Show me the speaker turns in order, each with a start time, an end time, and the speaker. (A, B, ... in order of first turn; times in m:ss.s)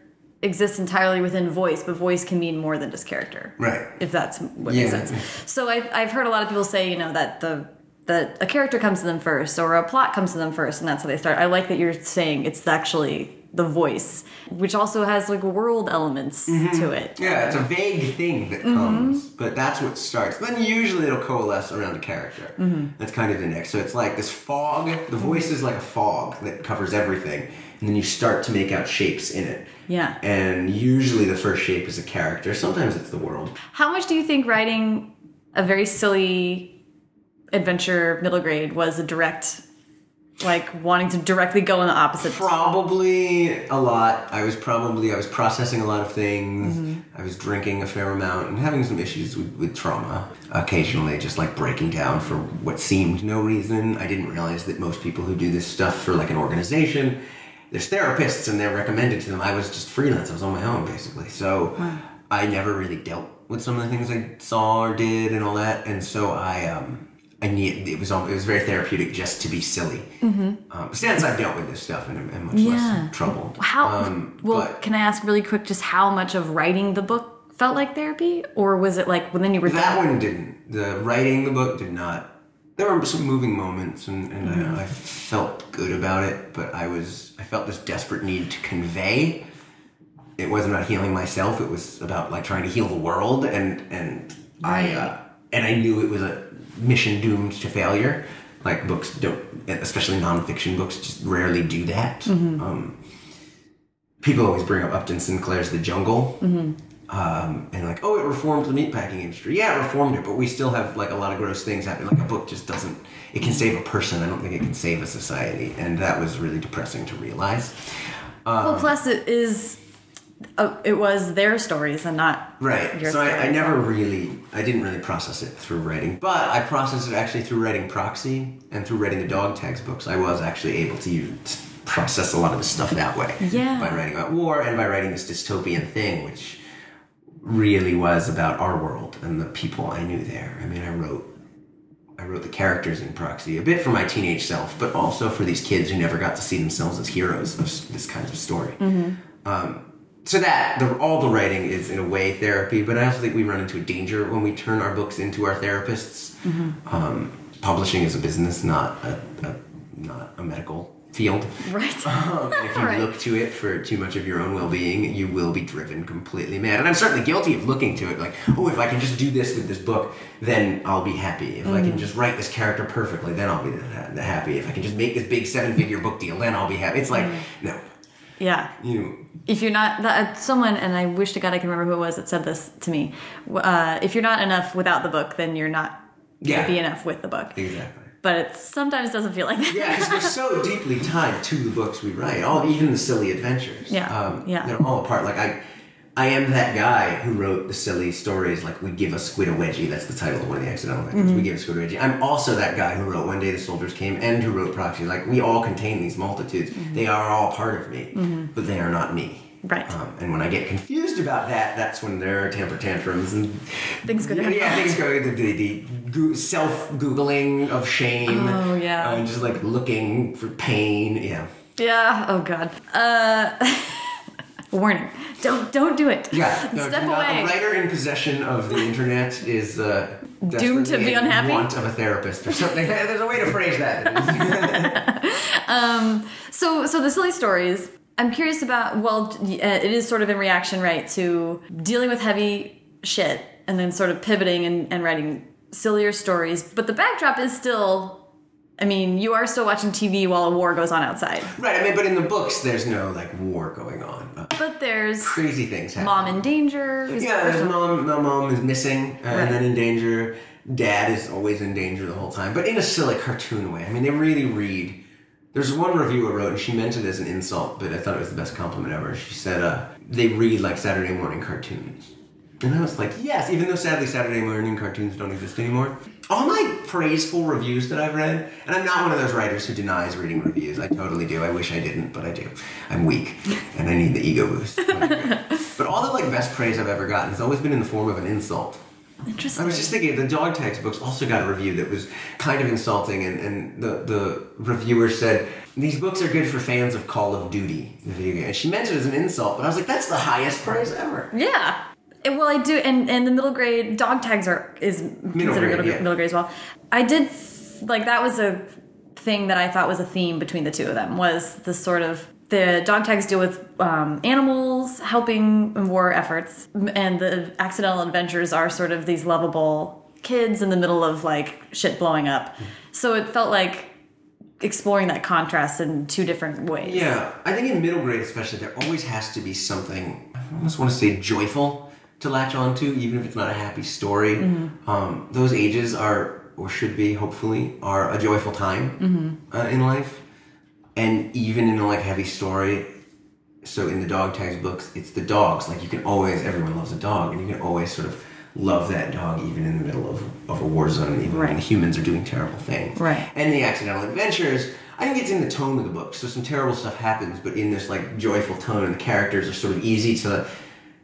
0:00.4-0:17.7 A
0:03.6-0:03.9 B
0:04.6-0:05.2 B
0:16.5-0:29.7 B
0:18.6-0:19.2 A
0:22.6-0:22.9 A
0:29.9-0:30.2 A
0:30.2-0:33.6 B
0:33.7-0:36.7 A
0:37.5-0:39.6 A
0:40.4-0:42.5 A
0:42.2-0:57.2 B
0:46.6-0:47.0 A
0:57.7-1:10.1 B
1:01.8-1:02.0 A
1:10.2-1:10.6 A
1:10.7-1:14.8 B
1:12.5-1:20.0 A
1:19.6-1:29.4 B
1:24.4-1:24.8 A
1:30.4-1:43.0 B
1:34.6-1:35.1 A
1:42.2-1:42.6 A
1:44.2-1:46.4 B
1:46.4-1:46.8 A
1:47.1-1:57.9 B
1:58.4-1:59.0 B
1:58.6-1:59.8 A
2:00.6-2:03.8 A
2:02.6-2:16.6 B
2:13.4-2:14.0 A
2:17.4-2:21.3 B
2:22.2-2:28.8 B
2:28.8-2:29.2 A
2:29.4-2:57.8 B
2:36.4-2:36.8 A
2:41.6-2:43.1 A
2:51.6-2:52.1 A
2:57.1-2:57.4 A
2:58.4-2:58.7 A
2:58.8-2:59.2 B
2:59.4-3:07.6 A
3:06.4-3:06.7 B
3:07.5-3:08.1 B
3:08.2-3:10.3 A
3:09.7-3:15.6 B
3:13.9-3:14.7 A
3:16.2-3:41.5 B
3:21.1-3:21.5 A
3:26.7-3:27.0 A
3:28.1-3:28.5 A
3:29.6-3:29.9 A
3:34.0-3:35.0 A
3:38.2-3:39.2 A
3:41.8-3:47.5 A
3:46.3-3:55.0 B
3:50.4-3:51.7 A
3:54.2-4:08.2 A
4:08.8-4:11.5 A
4:11.5-4:14.6 B
4:14.5-4:15.4 A
4:15.2-4:16.4 B
4:16.0-4:17.8 A
4:17.1-4:25.0 B
4:19.3-4:19.6 A
4:25.5-4:48.8 B
4:44.9-4:45.6 A
4:49.3-4:49.9 A
4:49.5-5:01.3 B
5:01.3-5:23.9 A
5:05.3-5:06.0 B
5:24.6-5:27.1 A
5:26.8-5:40.2 B
5:34.4-5:34.7 A
5:39.0-5:39.4 A
5:41.0-5:42.9 B
5:43.6-6:00.4 B
5:51.3-5:51.6 A
5:53.0-5:53.3 A